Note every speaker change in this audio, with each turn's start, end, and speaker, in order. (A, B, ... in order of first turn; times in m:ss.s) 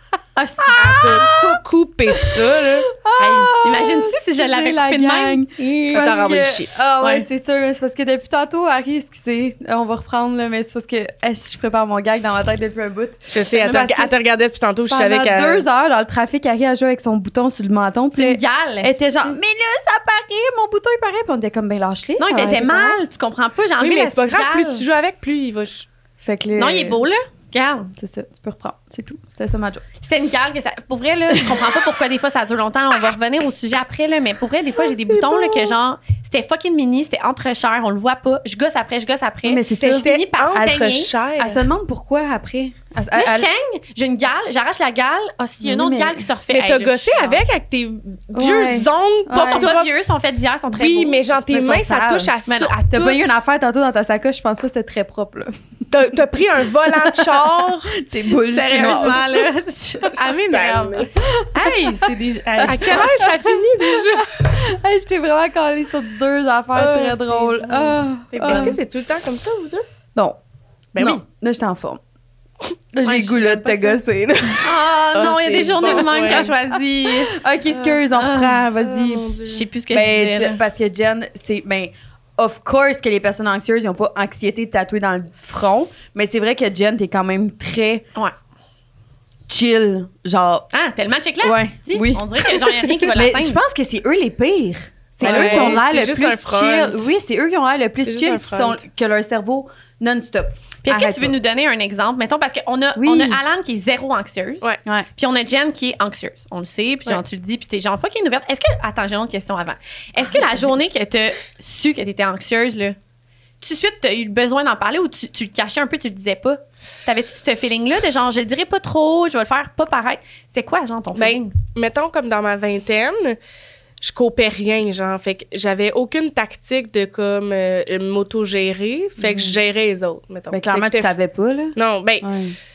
0:00.3-0:01.1 A
0:00.6-0:14.1 B
0:00.7-0:02.9 C
0:03.2-0:06.1 A
0:05.9-0:06.8 C
0:07.0-0:07.2 A
0:13.3-0:15.6 C
0:14.9-0:23.0 B
0:18.2-0:19.0 A
0:22.2-0:24.8 A
0:23.8-0:25.9 C
0:26.2-0:27.0 B
0:26.6-0:27.9 A
0:28.0-0:29.8 B
0:30.0-0:41.1 A
0:31.3-0:31.7 B
0:34.8-0:35.7 C
0:39.4-0:40.8 B
0:39.8-0:41.6 C
0:41.4-0:43.5 B
0:43.1-0:47.4 A
0:45.6-0:46.3 B
0:46.5-0:49.9 C
0:48.3-0:49.7 B
0:49.3-0:51.2 A
0:50.7-0:53.3 C
0:51.5-0:52.3 B
0:52.4-0:52.8 A
0:52.9-0:59.5 B
0:55.9-0:57.9 C
0:58.4-1:03.2 A
1:00.1-1:01.1 C
1:01.2-1:08.8 B
1:02.6-1:04.5 C
1:06.7-1:09.8 C
1:08.3-1:08.8 A
1:10.9-1:11.2 C
1:11.0-1:12.0 B
1:12.9-1:14.8 B
1:13.0-1:14.0 A
1:14.6-1:17.4 A
1:15.1-1:16.5 C
1:15.8-1:19.4 B
1:17.7-1:18.0 C
1:18.1-1:18.6 A
1:18.8-1:19.7 C
1:19.4-1:20.6 A
1:19.9-1:28.0 B
1:29.5-1:30.7 B
1:30.7-1:33.6 A
1:31.4-1:32.5 B
1:33.0-1:41.4 B
1:35.2-1:35.8 A
1:35.2-1:37.1 C
1:38.0-1:38.8 C
1:40.8-1:53.0 A
1:43.0-1:43.4 B
1:53.6-2:01.5 A
2:01.1-2:03.4 C
2:04.0-2:11.1 C
2:09.2-2:09.6 B
2:10.5-2:12.6 B
2:11.8-2:12.3 C